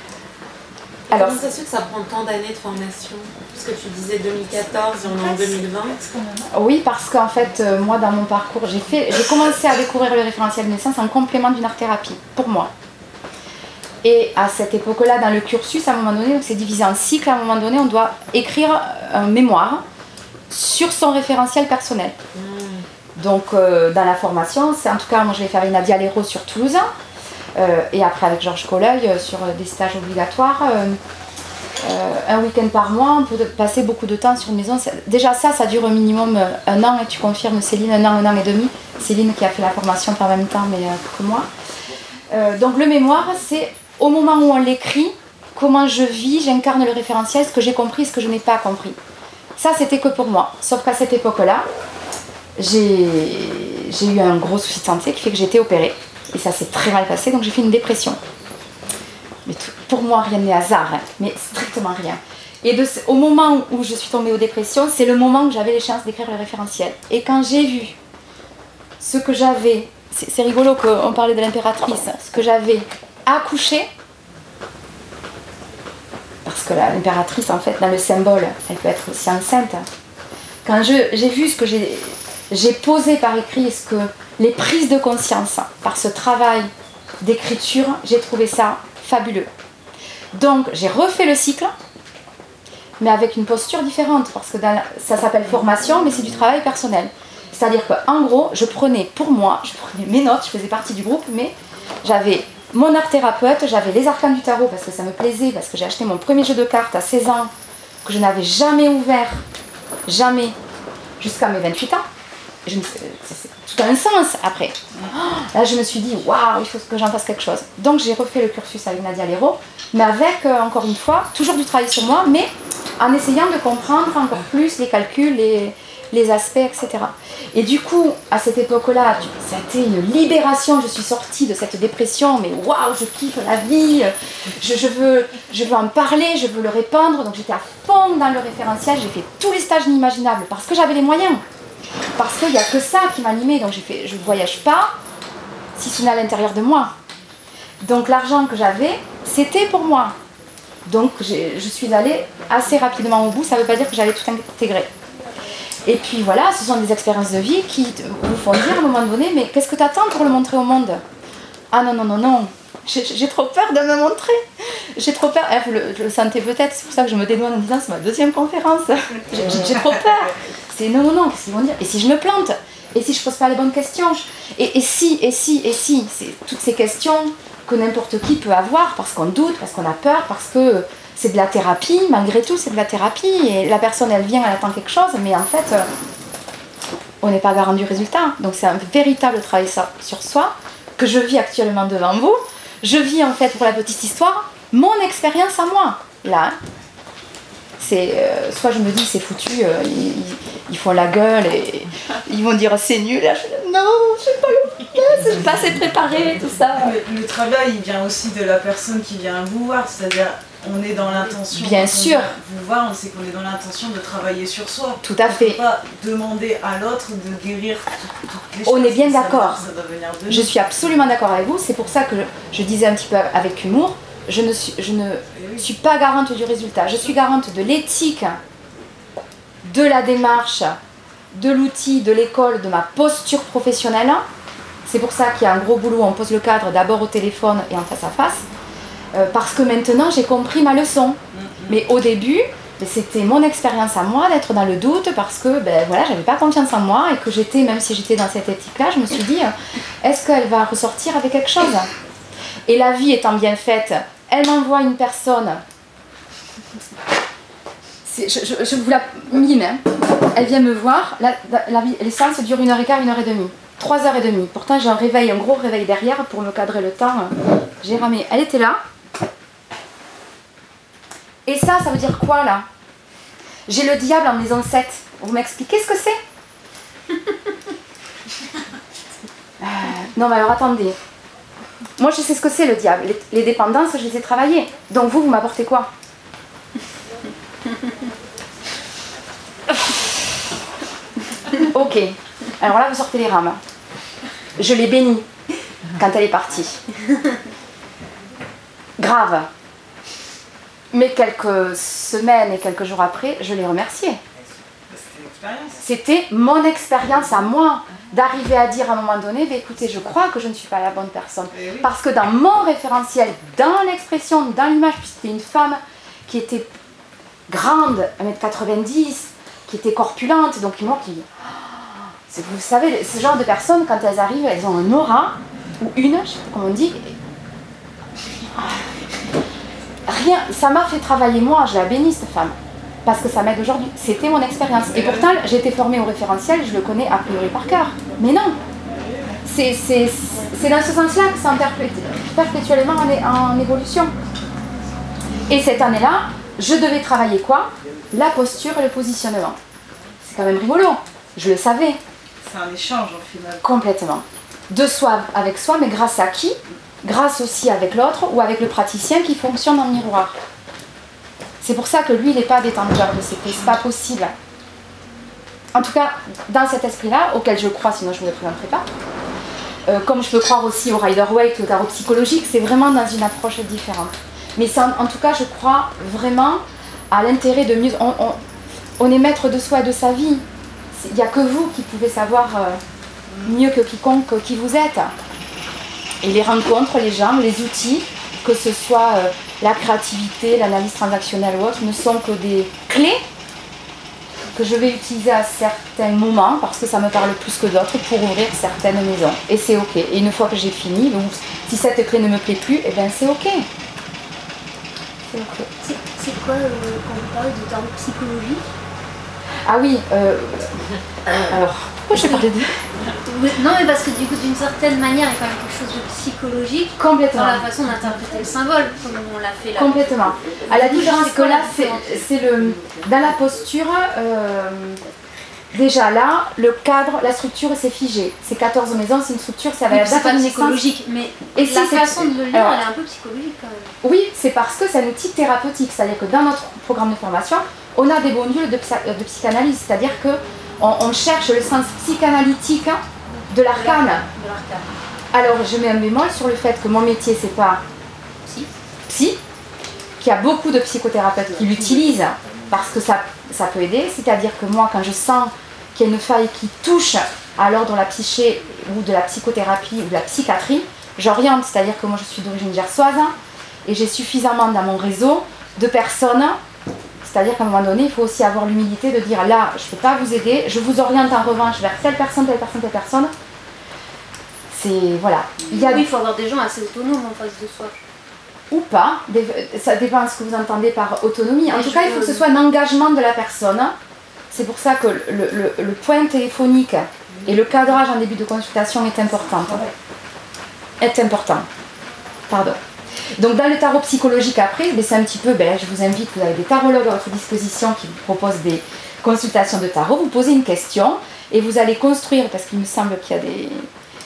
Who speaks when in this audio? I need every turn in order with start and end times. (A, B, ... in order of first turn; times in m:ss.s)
0:01.1-0:06.0 A
0:01.1-0:01.4 B
0:04.4-0:06.5 C
0:06.5-0:12.7 B
0:14.0-0:19.8 B
0:20.5-0:22.2 B
0:22.3-0:22.8 A
0:23.2-0:26.9 B
0:27.5-0:31.0 B
0:31.8-0:41.5 B
0:42.3-0:49.0 B
0:49.6-0:51.6 B
0:52.6-0:58.2 B
0:59.4-1:08.0 B
1:09.0-1:13.9 B
1:16.4-1:19.8 B
1:20.6-1:26.7 B
1:27.2-1:29.5 B
1:30.3-1:31.7 B
1:33.0-1:47.5 B
1:48.0-1:49.4 B
1:50.0-1:50.5 B
1:51.2-1:52.0 B
1:52.6-2:21.4 B
2:22.2-2:24.9 B
2:25.8-2:26.9 B
2:27.8-2:30.2 B
2:30.8-2:34.9 B
2:35.8-2:41.0 B
2:41.7-3:05.9 B
2:49.4-2:49.7 C
3:07.2-3:16.6 B
3:17.8-3:26.9 B
3:26.7-3:40.5 C
3:31.5-3:32.4 B
3:35.0-3:35.6 B
3:38.6-3:39.6 B
3:40.3-3:48.4 B
3:45.3-3:45.7 C
3:46.9-3:47.2 C
3:49.6-3:50.8 B
3:51.3-3:54.2 B
3:54.8-3:58.4 B
3:59.1-4:11.9 B
4:01.3-4:01.9 C
4:12.7-4:15.6 B
4:18.0-4:28.8 B
4:31.4-4:32.6 B
4:33.7-4:36.2 B
4:39.6-4:41.0 B
4:42.0-4:45.9 B
4:51.5-4:53.6 B
4:54.6-4:55.3 B
4:56.0-4:56.8 B
4:59.0-4:59.5 B
5:00.9-5:04.2 B
5:04.9-5:05.8 C
5:05.8-5:16.7 B
5:11.5-5:11.9 C
5:17.5-5:27.1 B
5:28.6-5:28.8 B
5:30.1-5:38.6 B
5:34.9-5:35.3 C
5:39.4-5:44.1 B
5:45.5-5:49.6 B
5:50.2-5:52.0 B
5:52.4-5:53.6 C
5:53.6-6:00.3 B
6:01.6-6:04.3 B
6:05.7-6:08.8 B
6:09.9-6:18.4 B
6:19.0-6:22.8 B
6:23.3-6:23.6 C
6:23.4-6:25.1 B
6:26.2-6:33.2 B
6:34.5-6:43.6 B
6:45.3-6:45.7 B
6:45.8-6:48.6 D
6:49.6-6:50.8 B
6:51.4-6:52.7 B
6:52.1-6:52.4 D
6:53.2-7:02.4 D
6:57.0-6:57.6 B
6:59.8-7:05.0 B
7:05.7-7:10.8 B
7:09.9-7:13.9 D
7:11.5-7:12.8 B
7:14.0-7:24.2 B
7:23.6-7:24.9 D
7:25.3-7:27.8 B
7:28.4-7:28.7 D
7:29.1-7:29.4 B
7:30.2-7:46.6 B
7:47.2-7:53.3 B
7:54.7-7:56.0 B
7:55.7-7:58.0 D
7:58.7-8:03.9 B
8:01.7-8:02.4 D
8:04.5-8:09.8 B
8:07.3-8:08.0 C
8:09.3-8:09.9 C
8:11.0-8:11.7 B
8:12.5-8:12.8 B
8:13.3-8:23.9 B